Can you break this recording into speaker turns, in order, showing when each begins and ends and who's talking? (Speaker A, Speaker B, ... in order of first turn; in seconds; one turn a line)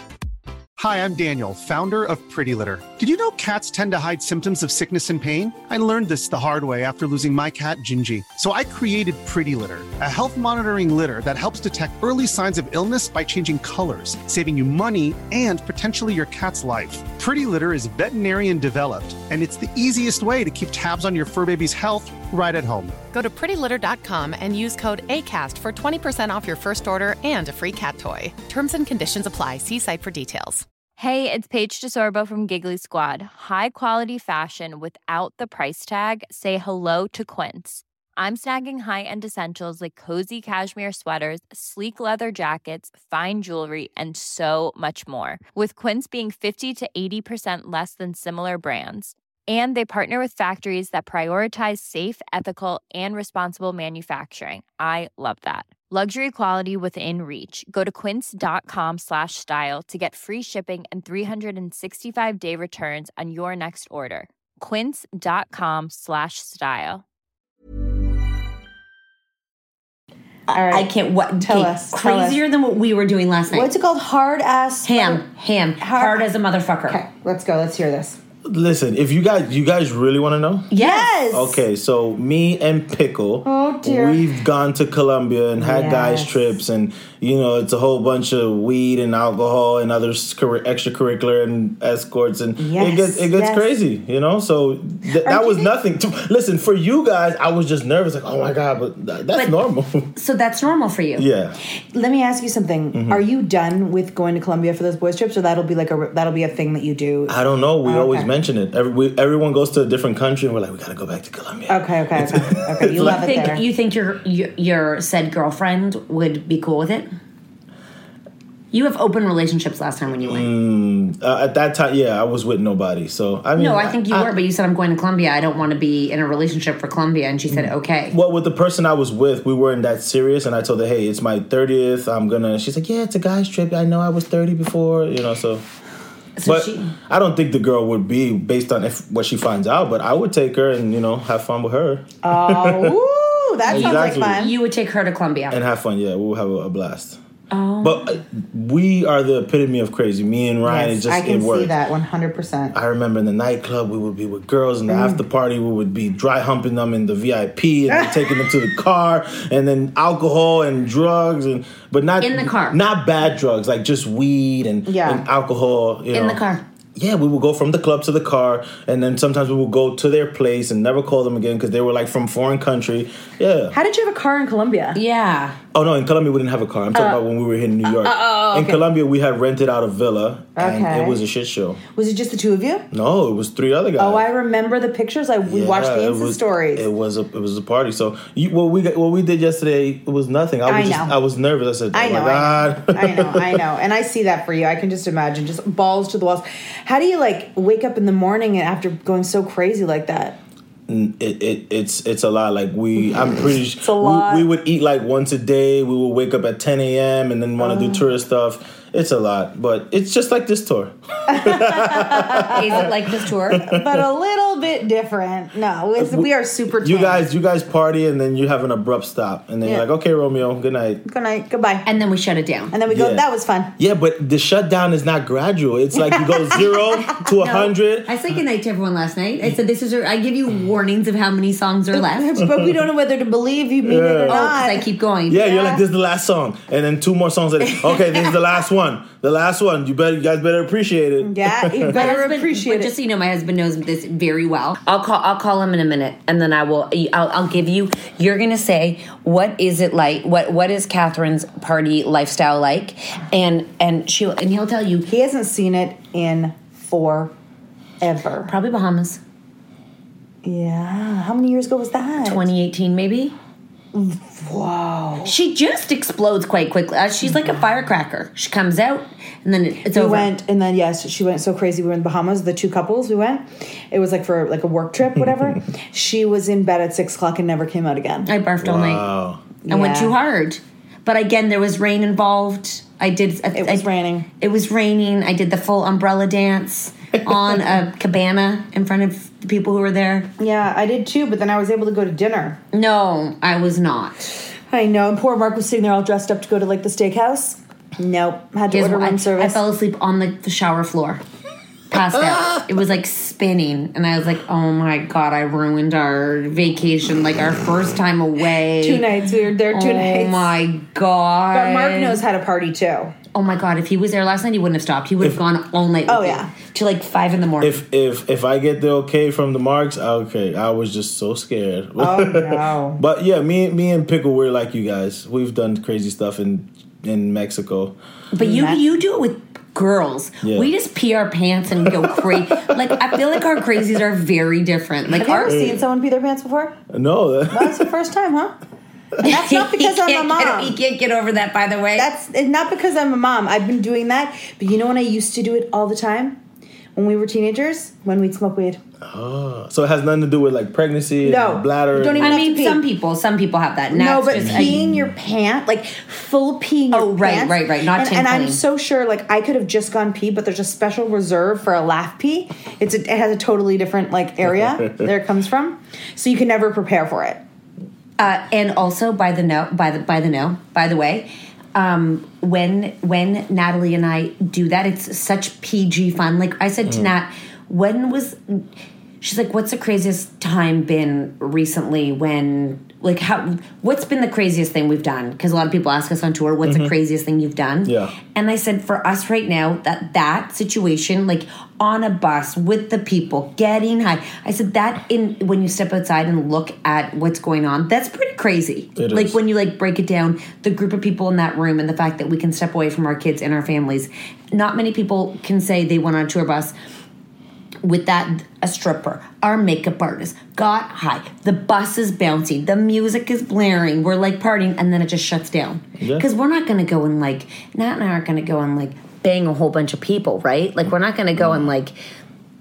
Speaker A: 0.8-23.0
Speaker B: 23.1-30.7
Speaker C: 31.0-67.0
Speaker D: 70.5-70.9
Speaker E: 70.5-73.7
Speaker D: 71.4-72.4
Speaker D: 73.5-75.2
Speaker E: 74.8-77.0
Speaker D: 75.8-76.3
Speaker D: 76.9-78.2
Speaker F: 78.5-80.7
Speaker E: 80.7-81.2
Speaker D: 80.8-81.6
Speaker F: 81.3-100.1
Speaker D: 83.4-84.3
Speaker D: 85.6-86.5
Speaker D: 92.6-93.7
Speaker D: 95.2-95.7
Speaker E: 99.3-99.6
Speaker E: 100.2-101.3
Speaker F: 101.2-101.6
Speaker D: 101.9-108.3
Speaker F: 102.9-103.2
Speaker F: 107.3-113.3
Speaker D: 111.7-113.6
Speaker E: 112.9-117.1
Speaker E: 118.7-120.5
Speaker F: 120.2-124.3
Speaker E: 123.5-128.2
Speaker F: 127.5-135.6
Speaker E: 136.4-136.9
Speaker F: 136.4-143.0
Speaker D: 142.2-144.5
Speaker F: 143.7-144.4
Speaker E: 143.7-145.6
Speaker F: 145.5-147.2
Speaker E: 147.5-148.1
Speaker F: 147.8-151.7
Speaker D: 150.6-152.8
Speaker F: 152.7-166.4
Speaker D: 154.9-155.2
Speaker D: 157.9-158.4
Speaker E: 162.2-162.8
Speaker D: 164.9-165.3
Speaker E: 166.1-166.6
Speaker F: 167.0-173.8
Speaker D: 173.7-175.0
Speaker E: 174.9-175.6
Speaker F: 175.7-181.8
Speaker D: 176.9-177.2
Speaker E: 178.0-178.8
Speaker D: 180.6-181.2
Speaker D: 181.9-182.9
Speaker F: 182.9-184.3
Speaker D: 184.0-186.9
Speaker F: 185.4-193.6
Speaker D: 190.7-191.2
Speaker D: 191.9-200.4
Speaker F: 200.9-212.9
Speaker D: 203.8-204.5
Speaker D: 207.6-208.1
Speaker D: 211.3-212.8
Speaker E: 212.5-213.6
Speaker F: 213.6-214.0
Speaker D: 213.6-217.3
Speaker F: 216.0-221.0
Speaker D: 221.1-221.9
Speaker E: 221.8-222.8
Speaker D: 222.7-223.7
Speaker F: 222.9-223.2
Speaker F: 223.8-228.2
Speaker D: 226.1-226.7
Speaker E: 227.4-232.4
Speaker D: 231.9-234.9
Speaker F: 232.5-232.7
Speaker F: 233.8-234.4
Speaker E: 234.3-235.8
Speaker F: 235.3-242.0
Speaker D: 241.2-242.9
Speaker E: 241.9-255.1
Speaker D: 255.1-257.3
Speaker D: 258.0-258.5
Speaker E: 258.4-259.2
Speaker D: 260.4-262.4
Speaker E: 262.2-263.4
Speaker D: 263.9-265.3
Speaker E: 265.2-270.3
Speaker D: 269.9-278.3
Speaker E: 278.2-279.1
Speaker F: 278.6-279.6
Speaker D: 279.6-280.2
Speaker E: 279.7-290.3
Speaker D: 283.6-284.3
Speaker D: 290.4-292.6
Speaker E: 292.7-294.3
Speaker D: 294.7-299.6
Speaker E: 298.7-301.2
Speaker E: 301.9-309.1
Speaker D: 308.8-310.5
Speaker E: 309.7-312.2
Speaker D: 311.5-313.1
Speaker E: 313.3-317.8
Speaker D: 316.1-316.5
Speaker F: 317.6-327.9
Speaker D: 322.0-323.0
Speaker E: 328.3-335.7
Speaker D: 328.4-328.8
Speaker F: 330.4-330.7
Speaker F: 331.9-332.7
Speaker D: 335.1-336.8
Speaker F: 335.5-335.8
Speaker F: 336.9-337.9
Speaker D: 337.5-338.5
Speaker E: 339.2-342.1
Speaker D: 339.3-340.8
Speaker D: 342.0-346.4
Speaker D: 346.9-348.8
Speaker F: 349.1-352.4
Speaker D: 351.2-352.8
Speaker E: 352.2-354.8
Speaker D: 353.9-367.4
Speaker F: 354.3-355.1
Speaker E: 356.9-358.6
Speaker F: 364.7-365.0
Speaker E: 368.2-378.6
Speaker E: 379.2-406.7
Speaker F: 386.6-386.9
Speaker F: 387.9-388.2
Speaker F: 398.9-399.4
Speaker E: 407.8-422.0
Speaker F: 416.0-416.3
Speaker F: 421.4-421.6